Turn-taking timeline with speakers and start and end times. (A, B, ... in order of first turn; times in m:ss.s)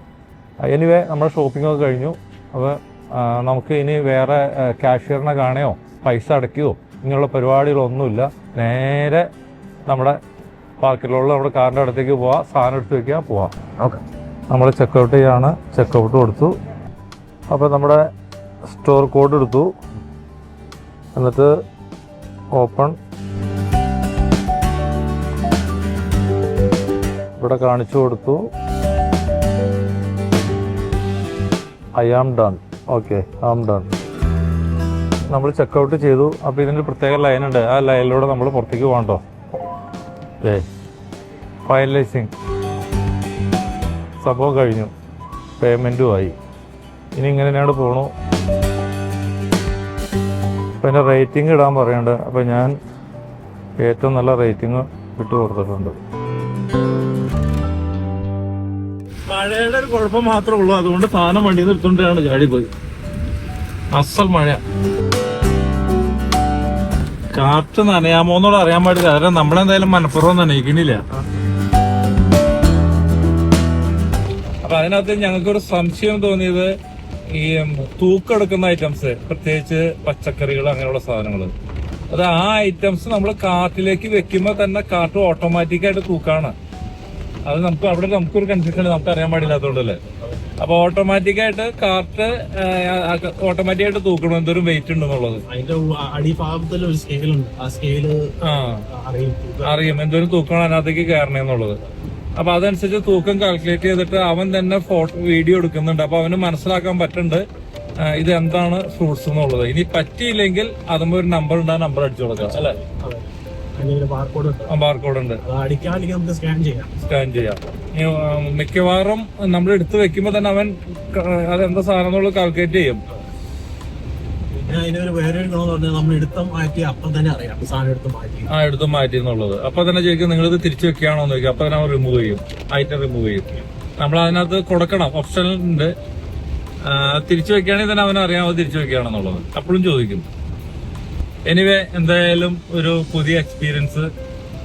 0:00.6-0:09.3 A
0:09.8-0:10.2 A
0:10.8-0:13.5 A
0:14.5-0:16.5 A
0:17.5-0:18.0 A
0:18.7-0:19.7 A
0:21.1-0:21.5 A
0:22.5-0:23.0 A
0:27.4-0:28.5 A
0:32.0-0:34.0 A
0:35.3-0:39.2 A
0:40.4-0:40.6 A
0:41.6-0:42.3 A
0:44.2-0:44.9 A
0:45.6-0:46.4 A
0:47.1-0:48.1 A
0:50.8-0:52.7 A
0:53.8-0:56.0 A
0:59.3-1:02.7 A
1:03.9-1:04.6 A
1:07.3-1:11.0 A
1:14.6-1:16.7 A
1:17.3-1:21.5 A
1:22.1-1:26.5 A
1:27.4-1:30.0 A
1:30.6-1:35.4 A
1:35.5-1:38.3 B
1:38.4-1:38.8 A
1:38.9-1:39.9 B
1:39.6-1:41.8 A
1:42.4-1:47.4 A
1:48.0-1:52.8 A
1:52.6-1:54.7 B
1:54.7-1:55.4 A
1:55.4-1:56.9 B
1:57.0-2:03.0 A
2:04.5-2:08.5 B
2:08.5-2:15.9 A
2:16.8-2:20.3 A
2:21.4-2:24.1 A